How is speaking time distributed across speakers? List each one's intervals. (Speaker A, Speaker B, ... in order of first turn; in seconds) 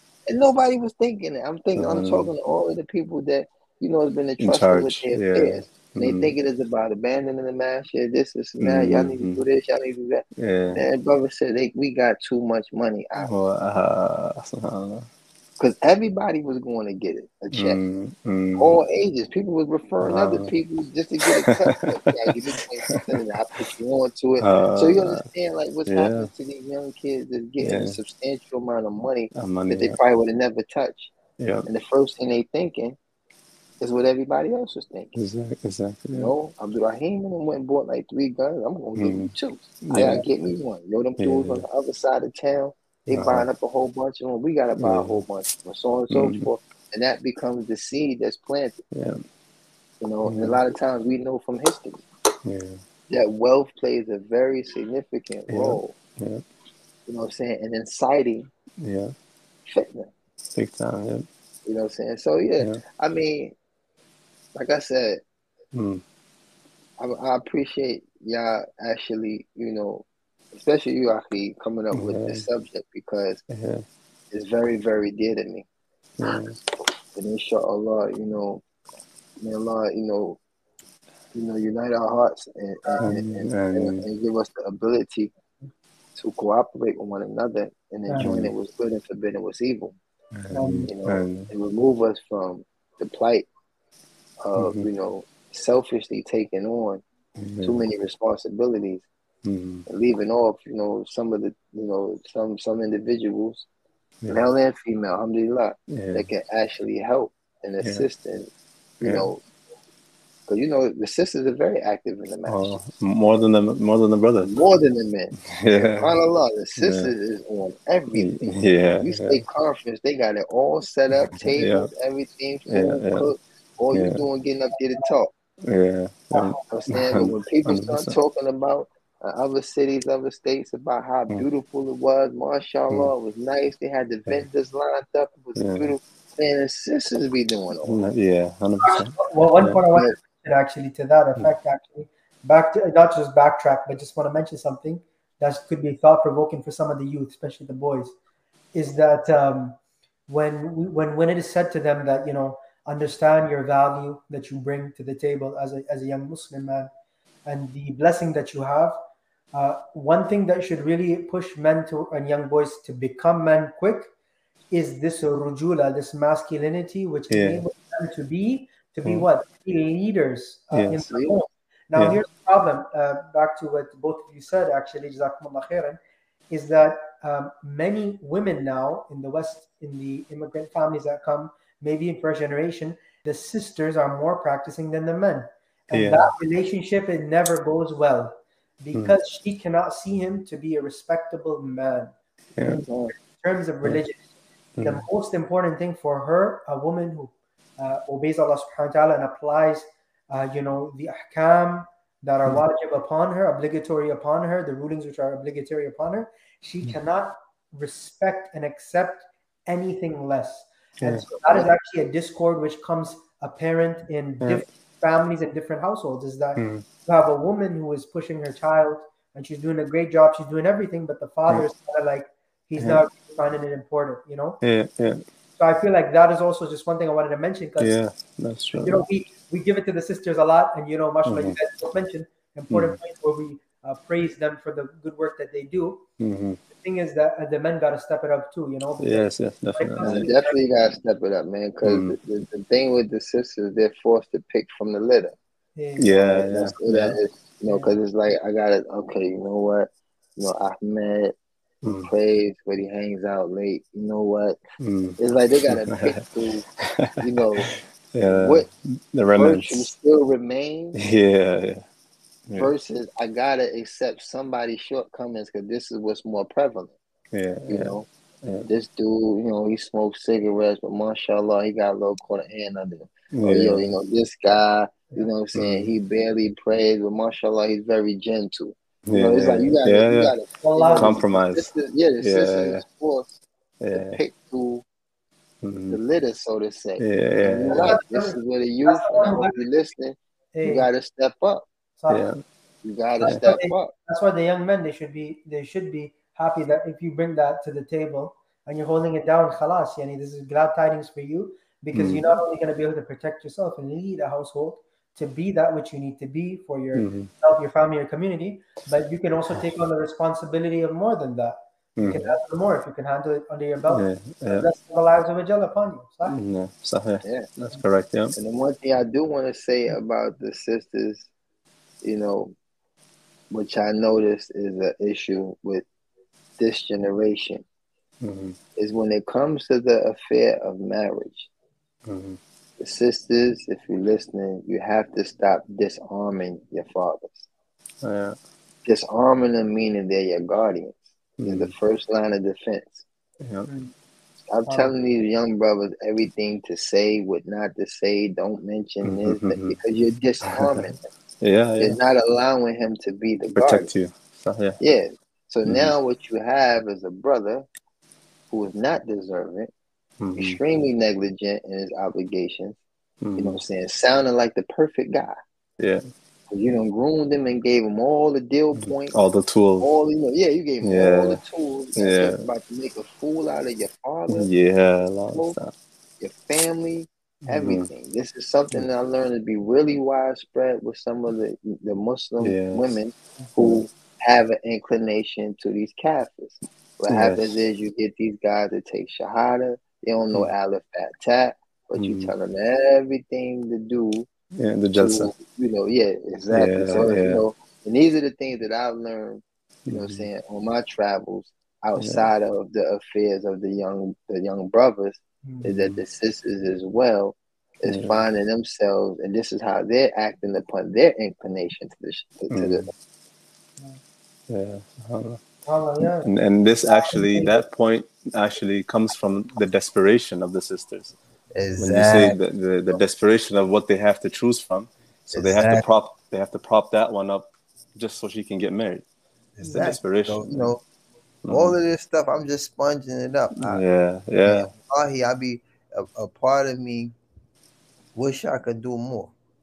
Speaker A: 0.3-13.3, 15.6-17.8, 18.6-31.1, 31.6-33.0, 33.8-35.1, 36.1-48.8, 50.0-52.1, 53.1-56.0, 57.1-58.5, 59.6-60.1, 61.6-63.5, 64.5-65.2, 67.0-73.4, 74.3-75.7, 77.1-78.6, 79.4-80.4, 81.3-85.3, 86.1-90.0, 90.8-93.5, 94.4-97.0, 97.6-99.1, 99.9-103.7, 104.3-109.4, 110.5-112.8, 114.4-125.3, 126.7-138.0, 171.0-171.4, 192.7-193.1, 240.0-245.3, 246.1-251.3, 252.0-254.6, 255.2-256.6, 257.2-258.7, 259.3-261.0, 262.6-266.9, 267.7-268.1, 268.6-283.3, 283.9-284.8, 285.9-291.6, 292.8-293.9, 317.2-317.5, 318.3-321.3, 322.0-322.6, 323.5-325.9, 326.6-327.6, 328.8-331.5, 332.8-337.5, 338.9-343.1, 344.5-351.1, 351.8-353.9, 354.8-357.6, 358.5-359.7, 360.3-362.8, 363.4-365.4, 366.5-369.2, 369.8-374.5, 376.2-394.3, 394.9-412.9, 421.5-422.4, 425.3-425.9, 429.6-430.8, 431.5-433.8, 434.4-437.1, 438.1-439.3
Speaker B: 1.8-2.3, 4.4-6.3, 8.6-9.4, 10.4-10.8, 13.2-15.1, 17.5-18.7, 20.0-20.5, 21.2-22.1, 22.9-23.6, 24.4-25.2, 25.9-26.3, 27.6-28.0, 29.3-30.0, 31.4-31.7, 35.1-36.2, 39.0-39.3, 39.9-40.2, 41.2-41.6, 43.1-43.5, 44.8-45.2, 46.1-46.5, 48.9-49.2, 50.2-50.6, 52.4-52.8, 55.5-56.4, 58.8-59.1, 60.5-61.2, 65.7-66.0, 71.9-72.5, 73.5-73.8, 76.2-76.6, 83.0-84.0, 88.2-88.5, 90.3-91.5, 94.6-94.9, 97.4-97.8, 99.4-99.8, 105.9-106.3, 109.0-109.3, 112.5-114.5, 115.5-116.1, 116.8-117.1, 118.1-119.4, 121.3-121.9, 122.7-123.3, 123.9-124.2, 125.6-128.2, 135.6-135.9, 137.8-139.8, 167.3-167.6, 170.7-171.0, 185.9-186.3, 192.6-192.8, 194.8-195.0, 211.0-211.3, 216.6-216.8, 222.8-223.0, 224.6-225.2, 227.8-229.0, 231.2-231.6, 232.7-233.0, 236.2-236.6, 239.0-240.2, 241.8-242.1, 246.0-247.2, 251.8-252.1, 254.8-256.2, 256.9-259.9, 260.9-261.8, 262.5-262.7, 267.3-268.7, 273.3-273.8, 275.5-275.9, 279.1-280.3, 280.9-281.7, 282.2-282.8, 283.8-284.2, 285.6-286.0, 287.0-287.9, 292.1-292.4, 301.9-302.4, 306.9-307.3, 311.9-312.3, 313.9-314.7, 316.3-318.4, 328.2-328.6, 332.1-332.4, 338.0-338.4, 341.4-341.7, 343.4-343.7, 349.0-349.8, 350.4-352.0, 353.5-354.8, 355.6-355.9, 360.2-360.6, 363.2-363.6, 368.8-369.9, 370.8-371.4, 371.9-372.4, 374.3-375.7, 377.5-377.9, 382.4-382.8, 387.1-387.6, 391.9-392.3, 394.5-395.3, 396.5-397.4, 399.9-400.2, 402.0-402.3, 405.7-406.0, 407.8-408.2, 412.5-412.9, 414.5-415.4, 416.0-421.1, 421.8-429.0, 429.7-430.7, 431.4-431.8, 433.6-434.7
Speaker C: 39.8-40.2, 82.9-83.1, 88.1-88.3, 90.5-90.9, 126.3-126.6, 138.8-148.1, 148.7-156.9, 157.4-159.0, 159.5-164.1, 164.7-192.1, 192.6-194.2, 194.8-224.6, 225.6-228.0, 228.8-236.0, 236.7-240.6, 245.8-246.1, 247.7-247.9, 280.6-281.1, 287.7-289.6, 290.5-290.9, 292.0-292.3, 293.2-316.4, 343.6-343.9, 344.6-344.9, 405.4-405.7, 415.6-416.3, 416.9-417.6, 429.6-429.9